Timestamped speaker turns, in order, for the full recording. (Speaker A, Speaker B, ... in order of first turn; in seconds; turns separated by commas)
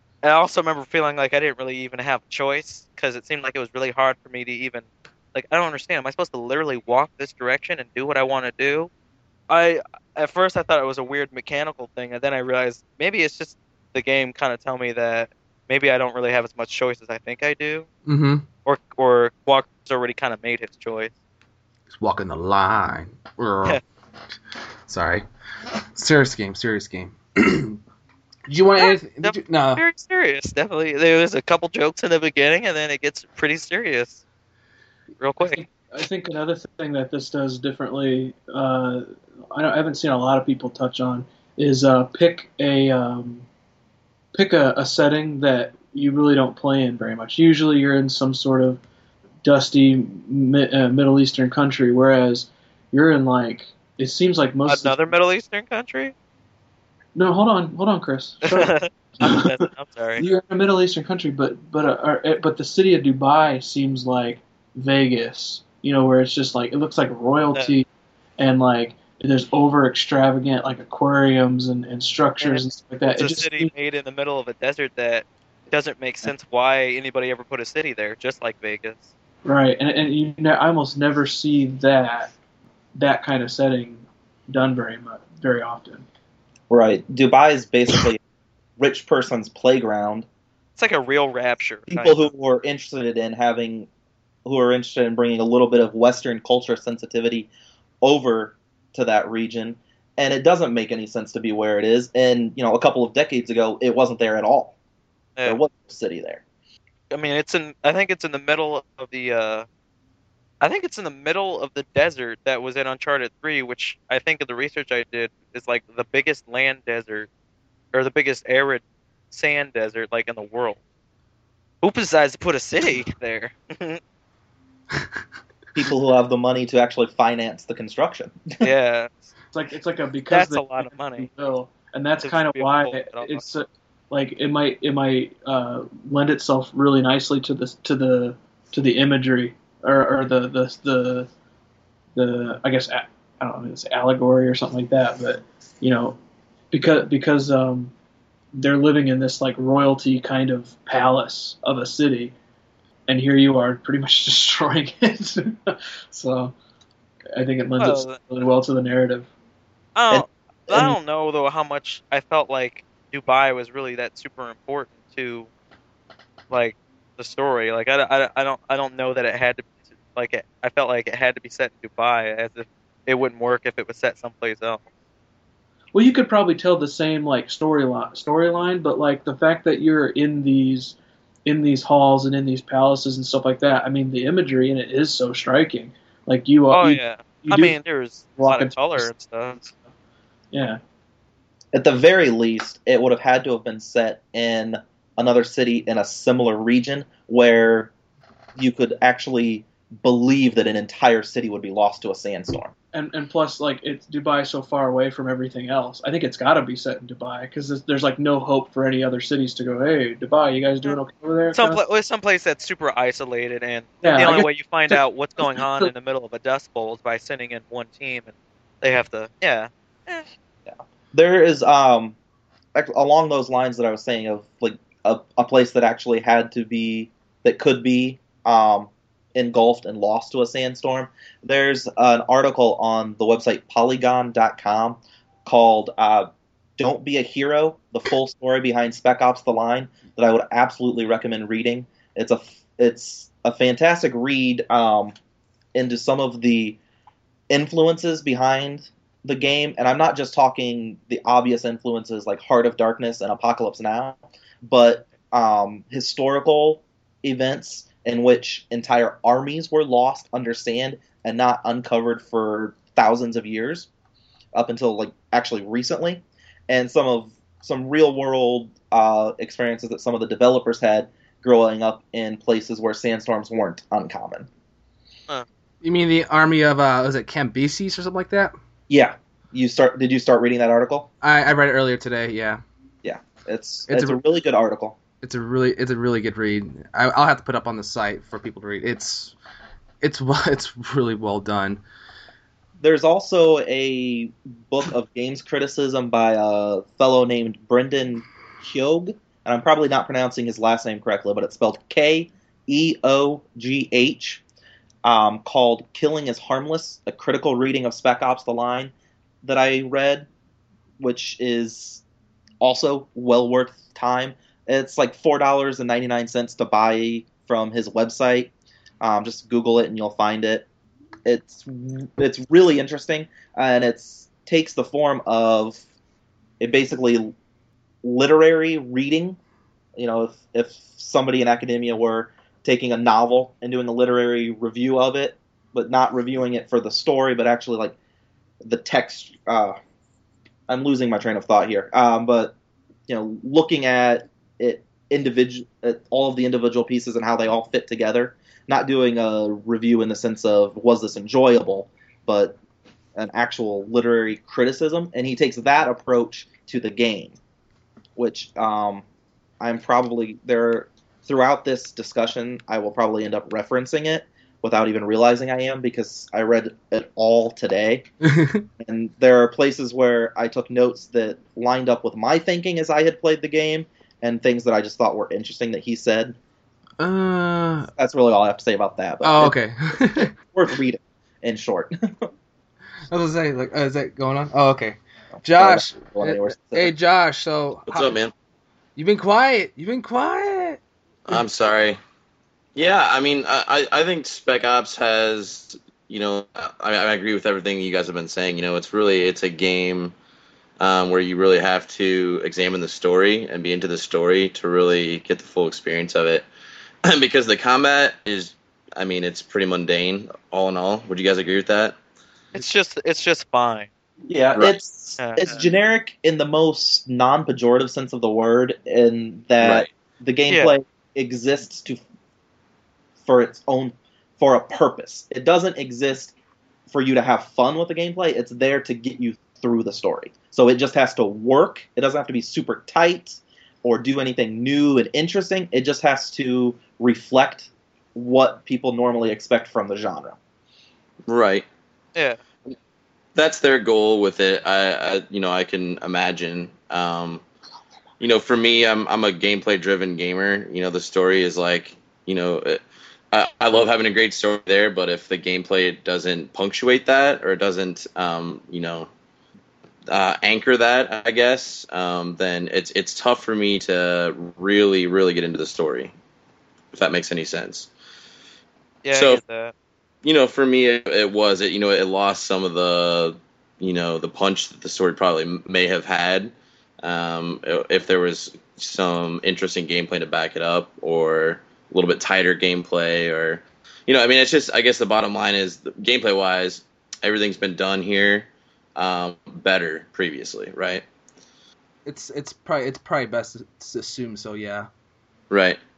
Speaker A: 0.2-8.9, Speaker A: 9.5-17.9, Speaker B: 18.1-18.5, Speaker A: 18.6-21.1, Speaker B: 21.9-23.8, Speaker B: 24.9-25.3, Speaker B: 25.9-27.8, Speaker B: 28.5-29.8, Speaker A: 28.8-34.2, Speaker A: 35.2-35.6, Speaker C: 35.4-43.5, Speaker C: 44.3-48.8, Speaker C: 49.4-55.1, Speaker A: 54.7-56.1, Speaker C: 57.1-59.5, Speaker A: 58.5-60.3, Speaker C: 60.2-67.9, Speaker C: 68.4-73.7, Speaker A: 72.4-79.1, Speaker C: 79.5-82.3, Speaker C: 83.0-86.0, Speaker D: 86.7-88.2, Speaker D: 88.8-90.3, Speaker A: 90.8-92.3, Speaker D: 91.9-93.9, Speaker D: 94.5-97.5, Speaker D: 98.0-104.8, Speaker D: 105.5-106.4, Speaker A: 107.1-109.7, Speaker A: 110.6-117.3, Speaker A: 117.9-120.8, Speaker A: 121.8-124.0, Speaker D: 125.8-128.7, Speaker A: 128.6-129.2, Speaker C: 129.5-141.3, Speaker A: 130.3-131.3, Speaker A: 132.2-133.5, Speaker C: 142.2-146.2, Speaker C: 146.7-147.9, Speaker C: 148.5-152.3, Speaker C: 153.1-156.5, Speaker C: 157.3-159.3, Speaker A: 157.8-158.2, Speaker A: 160.0-165.5, Speaker D: 160.1-161.0, Speaker A: 166.5-174.9, Speaker C: 175.9-187.8, Speaker A: 186.7-189.7, Speaker C: 188.4-189.7, Speaker C: 190.5-190.8, Speaker D: 191.7-197.9, Speaker D: 198.6-202.7, Speaker C: 202.9-211.8, Speaker A: 211.5-220.3, Speaker C: 214.0-215.9, Speaker D: 220.7-222.2, Speaker D: 222.8-245.2, Speaker D: 245.8-246.8, Speaker D: 247.5-263.9, Speaker D: 264.5-274.5, Speaker B: 275.8-278.5, Speaker D: 278.9-281.1, Speaker B: 281.2-282.6, Speaker D: 283.0-285.0, Speaker B: 283.9-284.2, Speaker B: 285.2-289.4, Speaker B: 290.0-291.8, Speaker D: 292.8-304.4, Speaker D: 305.0-310.3, Speaker D: 311.0-312.0, Speaker D: 312.6-320.7, Speaker D: 321.2-325.8, Speaker D: 326.6-327.3, Speaker D: 328.0-329.4, Speaker D: 330.0-338.0, Speaker D: 338.6-339.8, Speaker D: 340.7-342.6, Speaker D: 343.1-352.6, Speaker D: 353.2-357.4, Speaker D: 358.2-359.1, Speaker D: 359.6-368.1, Speaker B: 368.3-368.6, Speaker D: 368.8-376.4, Speaker B: 377.0-377.9, Speaker D: 377.9-382.3, Speaker B: 379.2-380.3, Speaker B: 383.1-388.2, Speaker D: 385.4-386.9, Speaker E: 387.9-388.3, Speaker B: 389.0-390.8, Speaker E: 391.3-392.0, Speaker E: 392.8-400.1, Speaker E: 400.8-406.5, Speaker E: 407.0-412.0, Speaker A: 412.5-413.9, Speaker D: 414.3-422.0, Speaker A: 415.2-415.6, Speaker E: 419.6-419.9, Speaker A: 420.5-420.8, Speaker D: 423.2-426.4, Speaker D: 426.9-440.4, Speaker E: 441.3-441.7, Speaker A: 442.1-442.4, Speaker E: 443.4-447.4, Speaker E: 448.2-459.1, Speaker E: 460.1-466.1, Speaker E: 466.9-467.9, Speaker A: 469.0-469.7, Speaker E: 469.1-469.4, Speaker E: 470.2-491.1, Speaker B: 492.1-494.9, Speaker E: 495.5-495.8